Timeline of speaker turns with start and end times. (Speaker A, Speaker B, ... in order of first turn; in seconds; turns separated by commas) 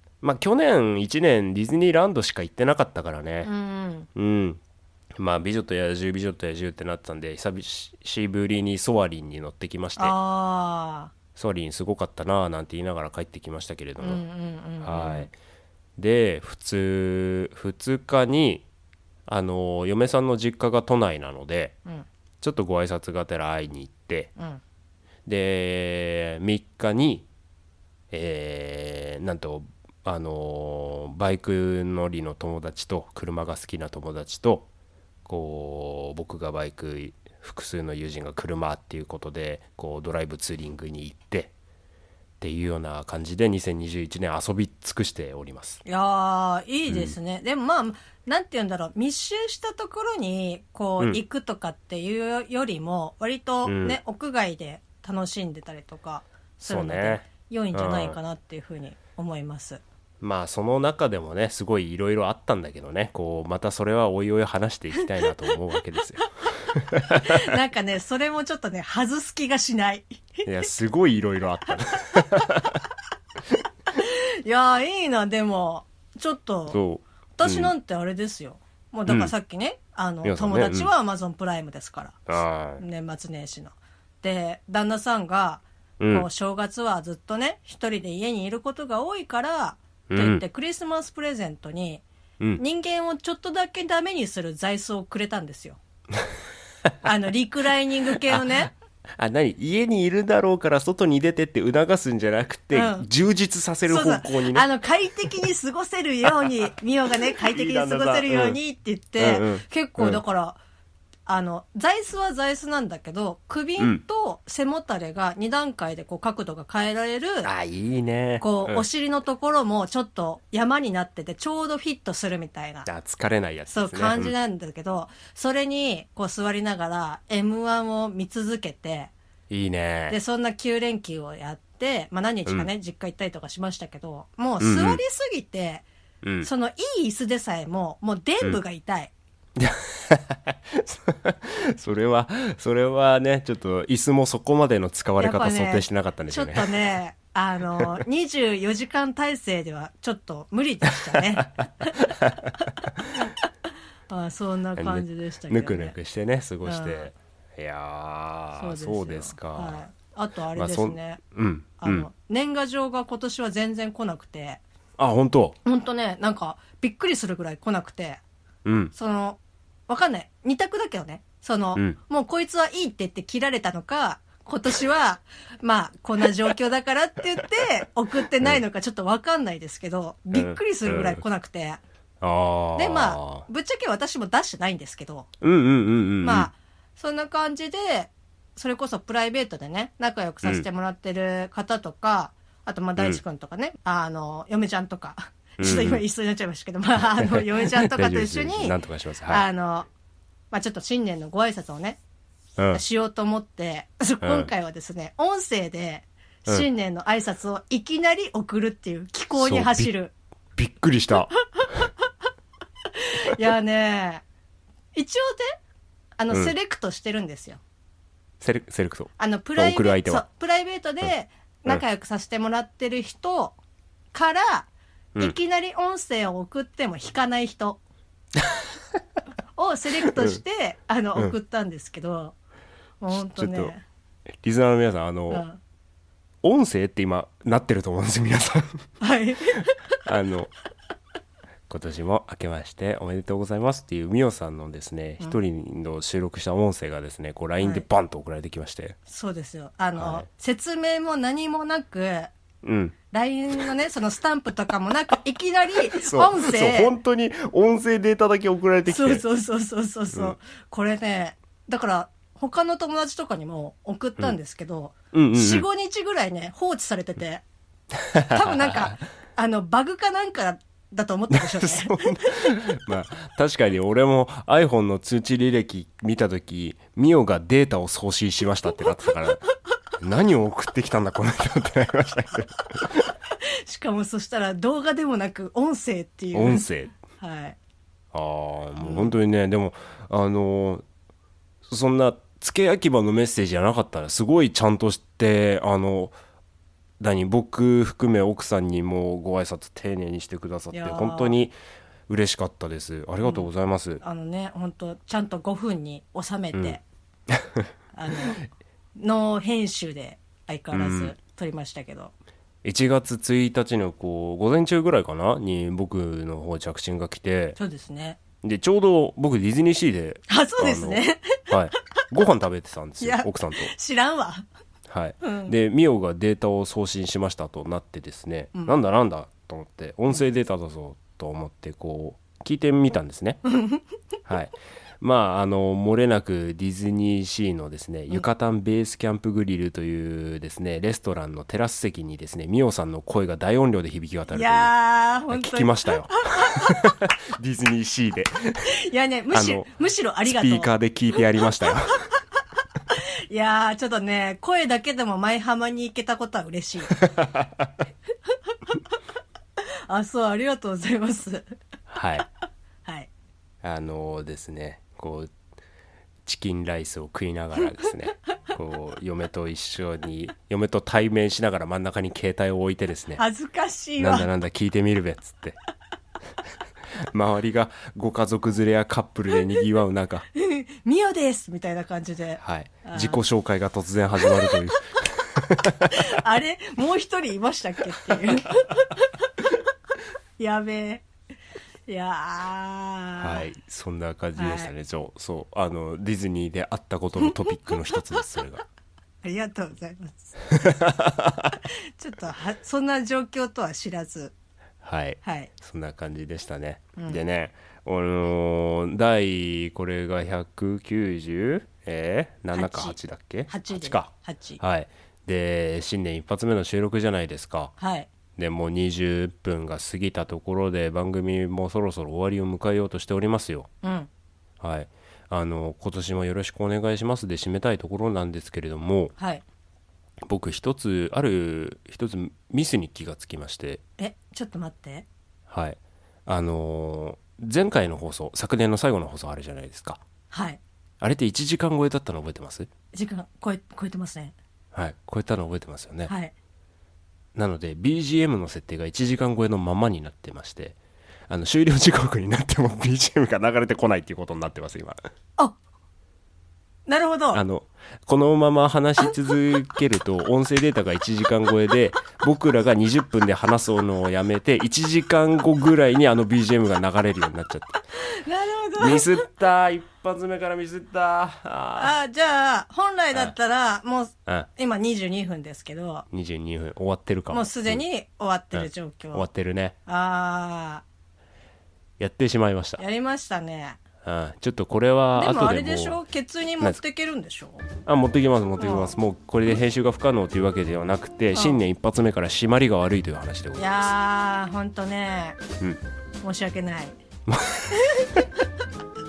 Speaker A: 0.2-3.5, Speaker B: 3.4-4.1, Speaker A: 4.2-4.6, Speaker A: 5.2-10.2, Speaker B: 10.0-11.1, Speaker A: 11.4-14.2, Speaker B: 14.0-15.3, Speaker A: 14.8-15.3, Speaker A: 16.0-18.7, Speaker A: 19.3-21.8, Speaker A: 22.4-24.3, Speaker A: 25.3-27.3, Speaker A: 28.1-34.7, Speaker A: 35.3-41.5, Speaker A: 42.4-45.8, Speaker B: 45.9-59.8, Speaker A: 46.9-47.2, Speaker A: 53.6-54.0, Speaker A: 56.6-58.2, Speaker A: 60.2-67.4, Speaker B: 67.2-70.5, Speaker A: 70.5-72.8, Speaker B: 73.9-76.8, Speaker A: 76.7-77.7, Speaker B: 77.4-82.3, Speaker A: 79.1-79.3, Speaker A: 80.2-80.9, Speaker A: 82.3-82.8, Speaker B: 82.8-92.0, Speaker A: 86.0-86.3, Speaker A: 90.1-90.4, Speaker B: 92.6-95.8, Speaker B: 97.0-98.7, Speaker A: 99.2-104.7, Speaker B: 102.7-103.1, Speaker B: 103.9-110.6, Speaker A: 107.3-108.6, Speaker A: 109.2-110.2, Speaker B: 111.3-117.5, Speaker A: 117.4-118.8, Speaker B: 118.4-122.9, Speaker A: 122.9-124.3, Speaker B: 123.7-129.1, Speaker A: 129.5-130.2, Speaker B: 130.1-135.9, Speaker A: 134.6-135.0, Speaker A: 136.2-136.5, Speaker B: 136.4-139.1, Speaker A: 139.6-146.7, Speaker B: 145.2-152.7, Speaker A: 151.4-153.1, Speaker B: 154.1-156.0, Speaker A: 154.8-159.8, Speaker B: 156.6-157.1, Speaker B: 158.6-161.2, Speaker A: 160.6-162.1, Speaker B: 161.8-164.6, Speaker A: 165.0-165.6, Speaker B: 165.7-168.2, Speaker A: 168.7-168.9, Speaker B: 168.9-181.8, Speaker A: 180.3-181.2, Speaker A: 182.2-183.4, Speaker B: 182.8-185.3, Speaker A: 185.4-186.5, Speaker B: 186.2-198.8, Speaker A: 195.6-196.0, Speaker A: 197.1-199.5, Speaker B: 199.3-199.9, Speaker B: 200.5-202.0, Speaker A: 202.6-202.8, Speaker B: 202.7-210.1, Speaker A: 204.2-204.5, Speaker A: 209.3-209.9, Speaker A: 210.6-211.9, Speaker B: 212.9-214.2, Speaker B: 214.9-215.5, Speaker B: 216.2-217.6, Speaker A: 218.4-220.2, Speaker B: 219.2-223.6, Speaker B: 224.1-227.8, Speaker B: 229.6-232.3, Speaker A: 230.1-230.4, Speaker B: 233.0-233.8, Speaker A: 233.1-233.7, Speaker A: 234.4-235.4, Speaker B: 235.3-235.6, Speaker A: 236.4-238.8, Speaker B: 239.0-239.8, Speaker A: 240.0-240.5, Speaker A: 241.7-249.0, Speaker B: 247.6-247.9, Speaker B: 249.1-252.3, Speaker A: 250.0-250.3, Speaker A: 252.6-253.0, Speaker B: 253.1-256.9, Speaker A: 255.9-259.2, Speaker B: 258.9-267.4, Speaker A: 265.1-265.7, Speaker A: 268.0-268.9, Speaker B: 268.3-272.4, Speaker A: 271.3-279.4, Speaker A: 280.0-283.1, Speaker B: 283.5-287.6, Speaker A: 286.3-287.0, Speaker A: 288.1-290.8, Speaker B: 288.8-289.2, Speaker A: 291.7-296.1, Speaker A: 297.0-301.6, Speaker B: 300.7-301.4, Speaker A: 302.1-304.0, Speaker B: 303.2-303.5, Speaker B: 304.0-306.8, Speaker A: 307.3-307.7, Speaker B: 307.9-308.4, Speaker B: 309.0-312.1, Speaker A: 310.7-311.1, Speaker A: 312.6-317.6, Speaker B: 317.6-318.2, Speaker A: 318.4-323.7, Speaker B: 320.3-321.5, Speaker B: 323.0-324.4, Speaker A: 324.9-333.4, Speaker B: 325.2-325.6, Speaker B: 333.5-333.8, Speaker A: 334.3-344.7, Speaker B: 344.3-346.9, Speaker A: 345.3-348.6, Speaker B: 348.7-350.7, Speaker A: 349.3-349.7, Speaker A: 350.2-352.0, Speaker B: 352.9-357.0, Speaker A: 357.0-357.7, Speaker B: 359.9-361.6, Speaker A: 361.9-362.3, Speaker A: 363.6-365.3, Speaker A: 366.2-373.2, Speaker B: 373.2-374.3, Speaker A: 374.0-375.6, Speaker A: 377.0-380.3, Speaker B: 380.3-383.2, Speaker A: 382.4-386.1, Speaker B: 384.2-384.5, Speaker B: 385.9-389.2, Speaker B: 390.4-391.1, Speaker B: 391.9-393.5, Speaker A: 393.2-398.6, Speaker B: 394.4-394.7, Speaker B: 399.2-400.4, Speaker A: 400.5-401.6, Speaker B: 401.6-404.3, Speaker A: 404.8-417.7, Speaker B: 405.2-405.5, Speaker B: 407.0-407.2, Speaker B: 412.5-413.0, Speaker B: 413.5-414.6, Speaker B: 417.8-418.1, Speaker A: 418.4-423.7, Speaker B: 423.8-424.1, Speaker A: 424.6-429.1, Speaker B: 429.2-429.4, Speaker A: 430.2-433.8, Speaker B: 434.0-435.1, Speaker A: 435.5-440.0, Speaker B: 440.3-440.6, Speaker A: 441.0-442.7, Speaker B: 442.9-444.4, Speaker A: 444.7-446.1, Speaker B: 446.1-446.3, Speaker A: 447.4-450.8, Speaker A: 451.3-455.0, Speaker B: 456.9-457.4, Speaker A: 457.3-467.8, Speaker B: 467.9-469.2, Speaker A: 468.8-471.9, Speaker B: 471.8-476.1, Speaker A: 476.1-477.8, Speaker B: 477.3-479.3, Speaker A: 478.5-479.8, Speaker B: 479.9-480.8, Speaker A: 482.0-482.8, Speaker B: 482.8-483.8, Speaker A: 484.0-486.0, Speaker B: 485.1-487.7, Speaker A: 487.9-493.9, Speaker B: 488.6-488.9, Speaker B: 493.6-495.4, Speaker B: 496.2-497.0, Speaker A: 497.3-498.2, Speaker B: 497.7-498.2